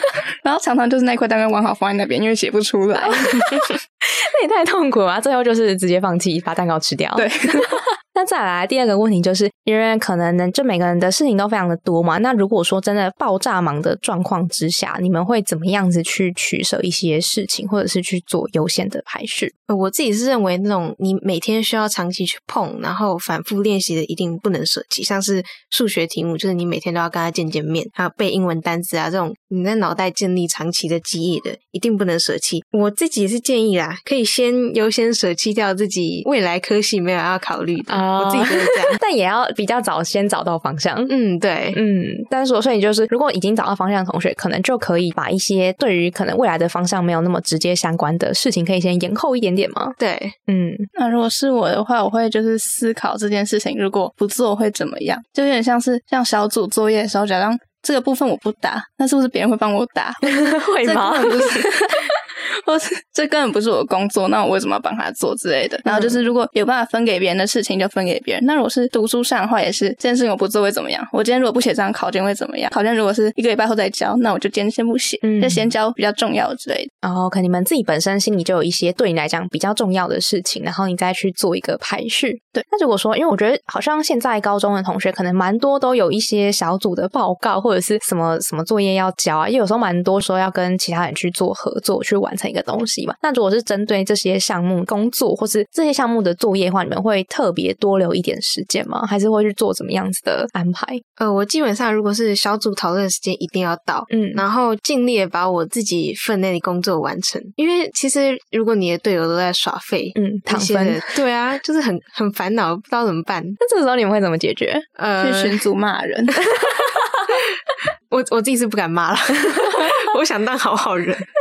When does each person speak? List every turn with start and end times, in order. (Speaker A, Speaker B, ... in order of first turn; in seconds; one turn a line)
Speaker A: 0.4-3.7
Speaker B: 3.0-19.5
Speaker A: 7.2-7.8
Speaker C: 19.7-39.0
Speaker B: 37.9-41.1
Speaker C: 41.1-41.8
Speaker B: 41.7-50.0
Speaker C: 50.0-50.4
Speaker B: 50.5-50.9
Speaker A: 51.0-76.9
Speaker B: 60.3-61.7
Speaker B: 65.9-66.2
Speaker B: 75.2-75.7
Speaker B: 77.0-101.0
Speaker C: 101.2-113.6
Speaker B: 104.1-104.4
Speaker B: 110.2-111.0
Speaker B: 113.6-114.9
Speaker C: 115.0-115.6
Speaker A: 115.2-116.4
Speaker B: 116.4-117.3
Speaker C: 118.1-121.3